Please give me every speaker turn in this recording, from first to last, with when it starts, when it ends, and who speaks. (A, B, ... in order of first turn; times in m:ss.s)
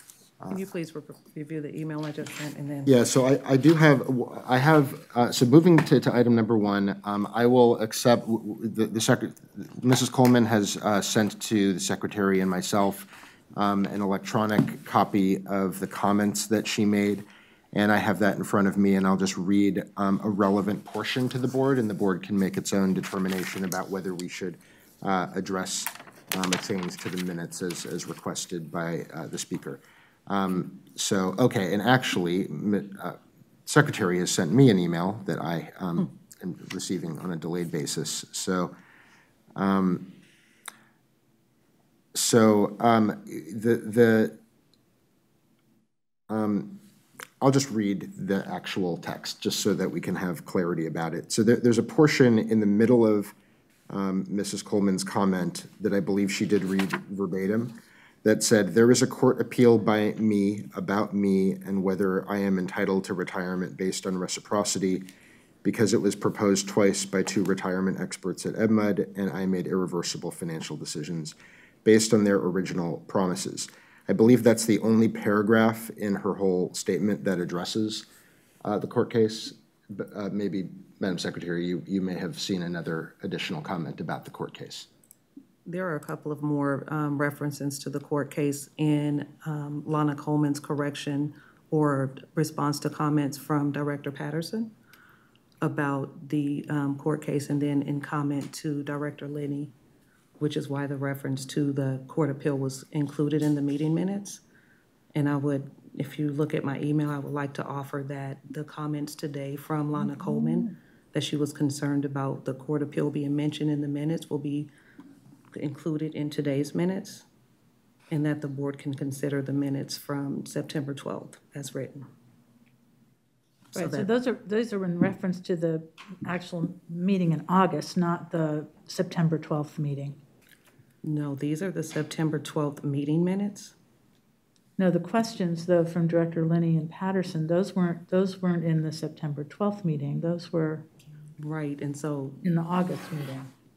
0:00.5-0:03.0 A
0:02.8-0:38.7 B
0:39.5-0:40.1 B
0:42.1-0:44.4 B
0:46.3-0:46.8 B
0:47.4-0:53.3 B
0:53.9-1:05.1 B
1:05.6-1:18.0 B
1:18.6-1:24.9 B
1:25.6-1:34.7 A
1:35.6-1:39.7 A
1:40.4-1:44.4 A
1:45.1-1:54.7 A
1:55.5-1:57.2 A
1:58.1-2:02.1 A
2:03.7-2:04.1 A
2:03.7-2:10.2 C
2:11.0-2:13.7 A
2:14.8-2:20.9 C
2:21.4-2:22.4 A
2:22.4-2:23.5 C